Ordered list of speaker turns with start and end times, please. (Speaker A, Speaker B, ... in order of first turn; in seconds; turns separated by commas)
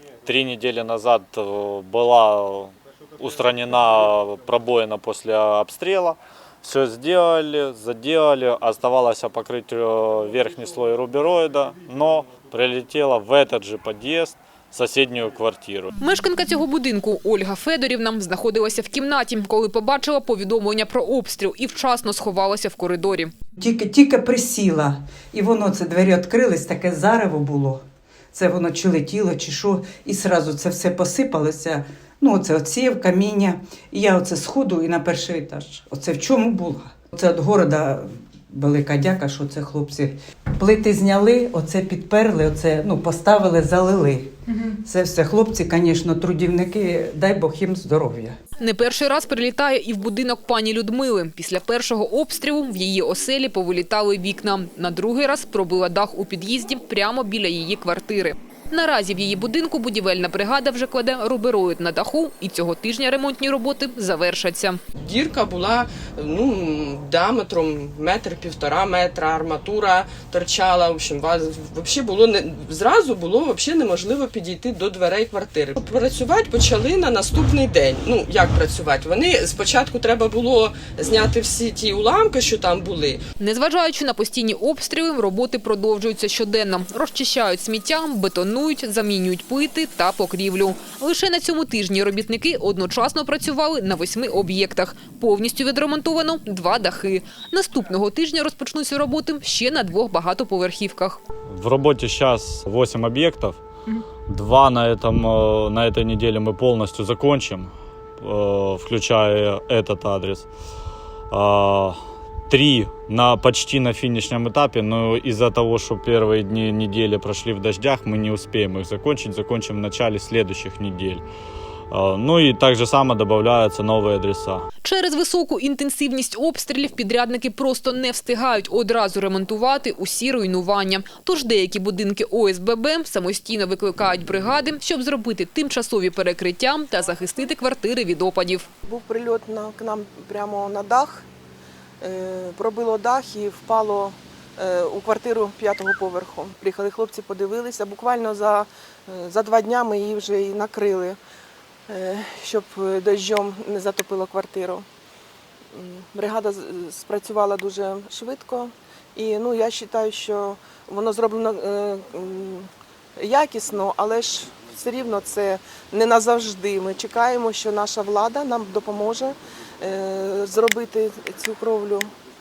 Speaker A: 0.2-15.9, Speaker B: 16.0-23.3, Speaker C: 23.6-27.8, Speaker C: 28.3-48.4, Speaker B: 48.6-64.8, Speaker D: 65.0-83.2, Speaker B: 83.4-101.2, Speaker A: 101.5-103.6, Speaker A: 104.3-110.5, Speaker A: 111.3-121.2, Speaker A: 121.9-124.7, Speaker B: 124.8-138.7, Speaker E: 138.8-141.3, Speaker E: 142.0-151.2, Speaker E: 151.9-154.8, Speaker E: 155.7-172.1